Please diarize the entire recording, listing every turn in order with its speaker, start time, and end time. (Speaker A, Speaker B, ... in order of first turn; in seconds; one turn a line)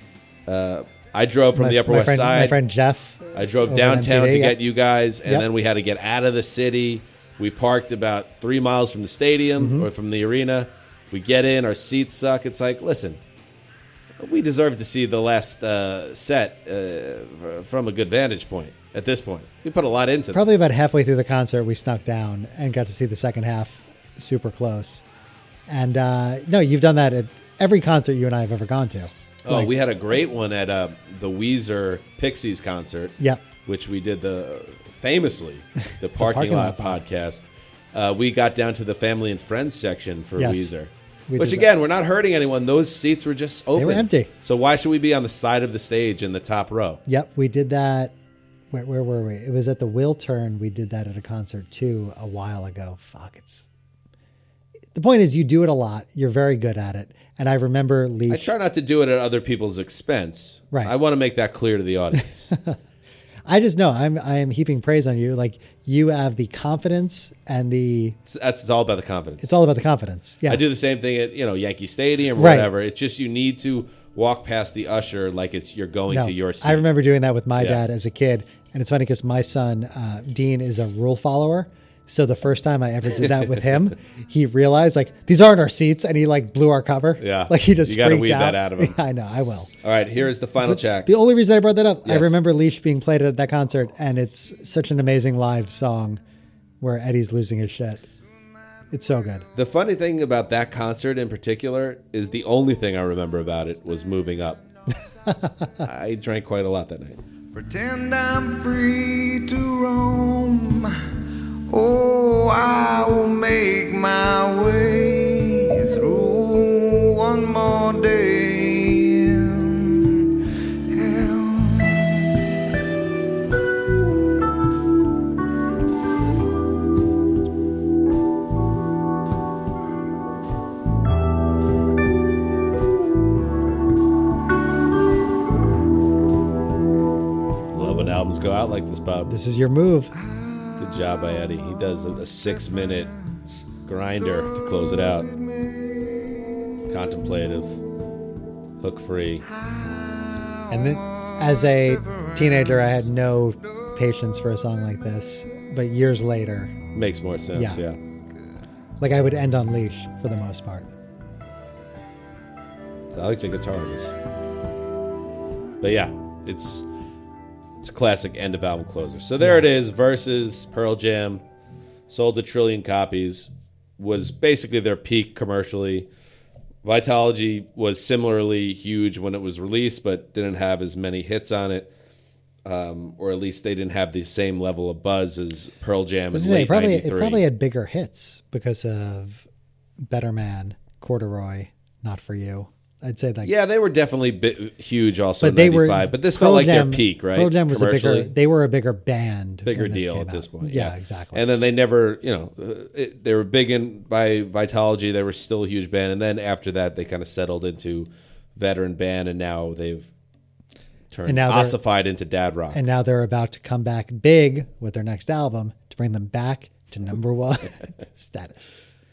Speaker A: 0.5-2.6
Speaker B: 1.6-4.6
Speaker A: 3.3-13.2
Speaker B: 9.6-9.9
Speaker A: 14.2-20.6
Speaker B: 20.3-25.0
Speaker B: 25.7-29.7
Speaker A: 29.4-47.0
Speaker B: 36.2-37.0
Speaker B: 40.4-40.7
Speaker B: 41.3-41.6
Speaker B: 43.8-44.3
Speaker B: 47.1-48.1
Speaker B: 48.7-53.6
Speaker B: 54.9-58.5
Speaker A: 58.3-62.5
Speaker B: 62.5-62.8
Speaker B: 63.5-68.2
Speaker A: 68.3-69.5
Speaker B: 69.4-70.6
Speaker A: 70.5-76.8
Speaker B: 72.4-72.7
Speaker B: 76.1-89.7
Speaker A: 77.6-77.8
Speaker A: 83.2-83.6
Speaker A: 87.2-89.0
Speaker A: 89.8-91.1
Speaker B: 90.6-96.2
Speaker A: 92.1-92.3
Speaker B: 96.8-98.0
Speaker B: 98.9-99.4
Speaker A: 99.5-104.6
Speaker B: 105.3-105.8
Speaker A: 105.8-107.2
Speaker C: 107.5-111.1
Speaker C: 111.7-120.3
Speaker C: 120.9-122.2
Speaker A: 137.7-139.3
Speaker B: 139.3-140.1
Speaker C: 140.3-140.8
Speaker A: 140.8-143.1
Speaker A: 143.8-145.3
Speaker C: 144.9-146.6
Speaker A: 146.9-147.8
Speaker A: 148.8-149.4
Speaker C: 149.5-152.9
Speaker B: 150.7-156.7
Speaker A: 156.9-158.0
Speaker B: 157.6-157.8
Speaker B: 159.0-160.9
Speaker A: 163.1-164.1
Speaker A: 165.8-166.8
Speaker A: 167.8-171.4
Speaker A: 172.1-176.1
Speaker A: 176.8-181.9
Speaker A: 182.6-187.4
Speaker B: 186.3-189.4
Speaker B: 190.1-193.5
Speaker A: 193.4-198.3
Speaker B: 195.4-201.4
Speaker A: 199.7-210.1
Speaker A: 211.1-212.8
Speaker B: 211.3-211.8
Speaker B: 212.7-218.8